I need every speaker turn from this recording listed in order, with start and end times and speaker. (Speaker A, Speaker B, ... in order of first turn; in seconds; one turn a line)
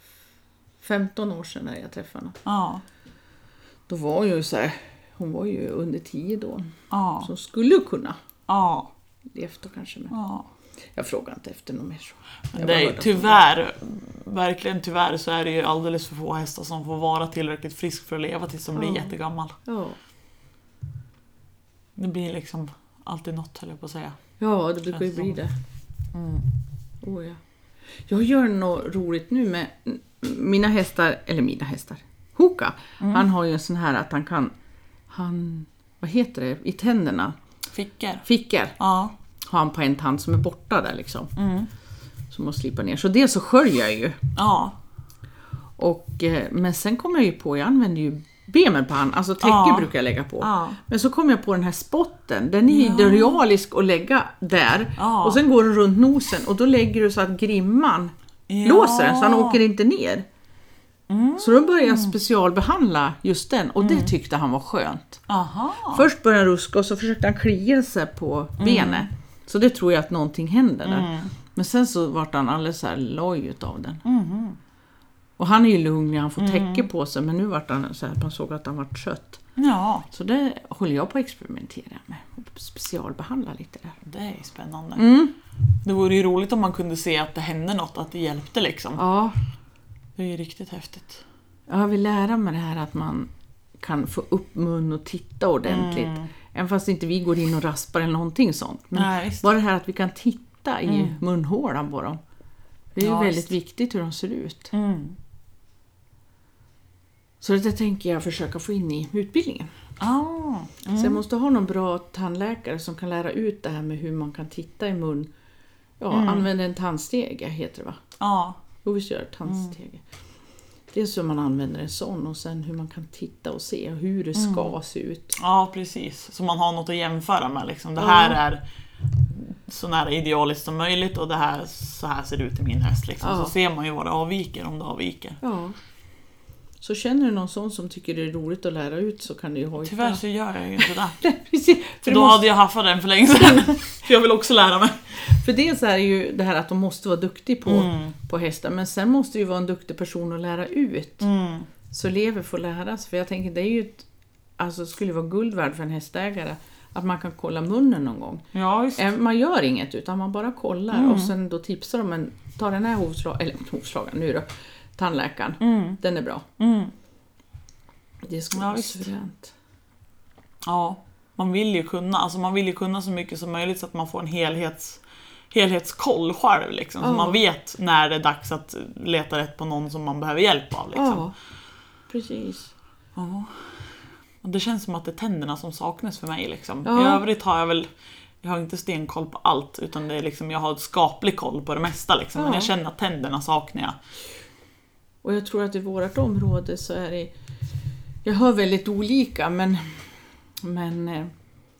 Speaker A: 0.8-2.4
Speaker B: 2.5-2.8
Speaker A: 3.9-8.2
Speaker B: 6.9-7.3
Speaker B: 8.5-8.9
Speaker A: 9.3-10.1
Speaker B: 10.1-10.5
Speaker A: 11.0-13.4
Speaker B: 12.5-19.6
Speaker A: 18.8-19.1
Speaker A: 19.6-20.0
Speaker B: 22.0-24.2
Speaker A: 24.4-25.5
Speaker B: 24.9-25.4
Speaker B: 26.1-26.5
Speaker A: 27.0-27.4
Speaker A: 28.1-34.5
Speaker B: 33.0-33.3
Speaker A: 35.1-37.4
Speaker B: 37.7-38.2
Speaker A: 38.2-38.8
Speaker B: 38.8-39.1
Speaker A: 39.4-41.3
Speaker B: 41.4-41.7
Speaker A: 42.3-44.2
Speaker B: 44.4-44.8
Speaker A: 45.8-58.1
Speaker B: 49.4-50.8
Speaker B: 52.7-53.4
Speaker B: 55.0-55.4
Speaker B: 58.5-59.6
Speaker A: 58.6-60.2
Speaker B: 61.1-62.1
Speaker A: 61.4-65.2
Speaker B: 63.8-64.1
Speaker B: 65.3-66.0
Speaker A: 65.9-74.0
Speaker B: 68.6-69.1
Speaker B: 70.8-71.3
Speaker B: 74.0-74.6
Speaker A: 75.4-79.4
Speaker B: 76.4-76.9
Speaker B: 79.6-80.1
Speaker A: 80.1-84.0
Speaker B: 84.0-85.1
Speaker A: 85.0-85.3
Speaker B: 85.8-89.0
Speaker A: 89.0-89.4
Speaker B: 90.2-91.2
Speaker A: 91.7-102.2
Speaker B: 95.7-96.3
Speaker B: 98.9-99.5
Speaker B: 100.9-101.2
Speaker A: 103.0-104.7
Speaker B: 103.0-103.5
Speaker B: 104.7-105.2
Speaker A: 107.4-109.7
Speaker B: 110.0-111.2
Speaker A: 110.9-115.3
Speaker A: 116.0-118.0
Speaker B: 116.1-116.5
Speaker B: 118.2-118.6
Speaker A: 118.8-120.0
Speaker B: 119.5-119.7
Speaker A: 120.9-125.4
Speaker B: 124.4-124.7
Speaker B: 125.4-135.4
Speaker A: 128.0-128.4
Speaker A: 133.2-133.5
Speaker A: 135.4-135.8
Speaker A: 136.8-140.2
Speaker B: 139.8-141.2
Speaker A: 141.2-142.4
Speaker B: 142.1-144.9
Speaker A: 145.2-151.2
Speaker B: 147.7-148.2
Speaker B: 151.2-151.7
Speaker A: 151.9-154.1
Speaker A: 154.6-166.5
Speaker B: 158.5-159.0
Speaker B: 160.9-161.3
Speaker B: 165.6-166.0
Speaker B: 166.6-166.9
Speaker A: 168.2-169.5
Speaker B: 168.5-169.1
Speaker B: 170.6-175.0
Speaker B: 175.5-181.3
Speaker A: 177.0-177.4
Speaker A: 180.9-181.3
Speaker A: 182.1-182.7
Speaker B: 183.2-183.9
Speaker B: 184.4-187.9
Speaker A: 186.8-187.2
Speaker B: 188.4-194.0
Speaker A: 192.4-192.7
Speaker A: 195.2-197.3
Speaker A: 198.2-200.1
Speaker A: 200.6-201.3